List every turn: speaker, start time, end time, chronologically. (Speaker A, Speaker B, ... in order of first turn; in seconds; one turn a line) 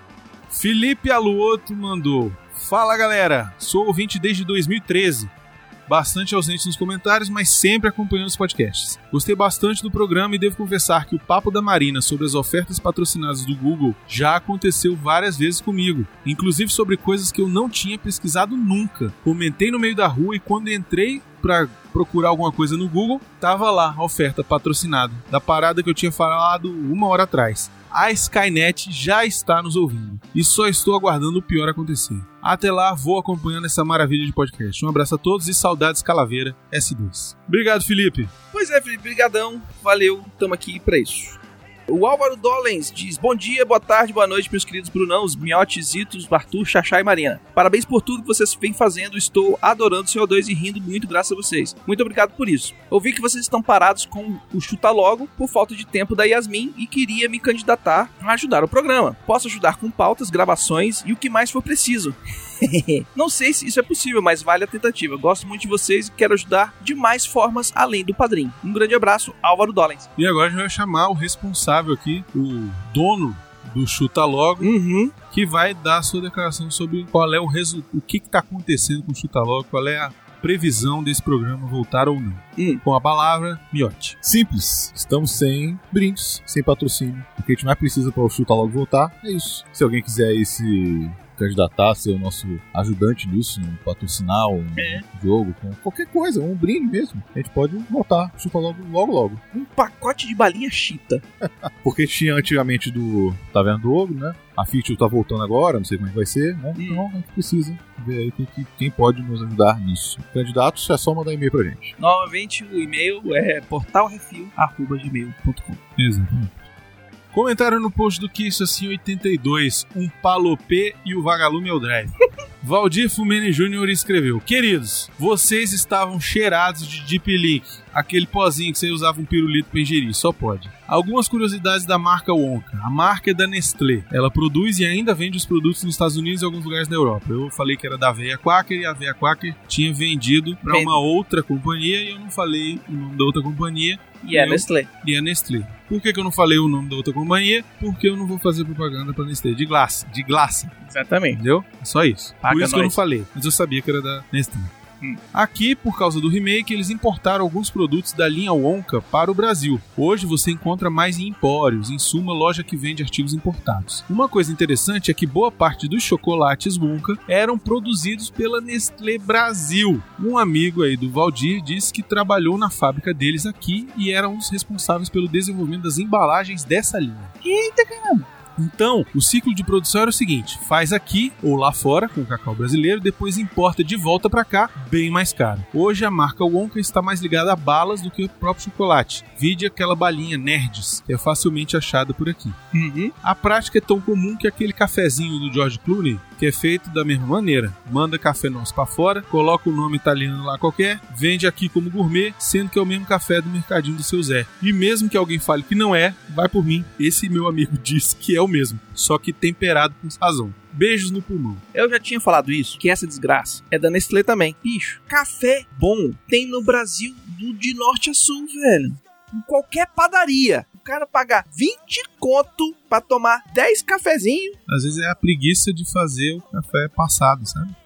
Speaker A: 0.5-5.3
Speaker A: 5.9-38.3
Speaker B: 38.5-70.1
Speaker A: 70.2-74.7
Speaker B: 74.6-75.1
Speaker A: 75.3-84.2
Speaker B: 82.6-82.8
Speaker C: 84.2-99.4
Speaker B: 94.8-95.0
Speaker B: 99.5-101.2
Speaker C: 101.6-111.9
Speaker B: 106.8-107.0
Speaker B: 112.0-115.8
Speaker A: 116.0-116.5
Speaker A: 117.3-150.7
Speaker B: 140.6-141.0
Speaker B: 144.2-144.9
Speaker B: 150.8-151.4
Speaker A: 151.3-154.7
Speaker B: 152.4-152.9
Speaker A: 155.3-177.3
Speaker B: 177.4-178.3
Speaker A: 178.6-192.6
Speaker B: 192.7-193.1
Speaker A: 193.2-211.6
Speaker B: 211.7-224.6
Speaker A: 224.7-227.7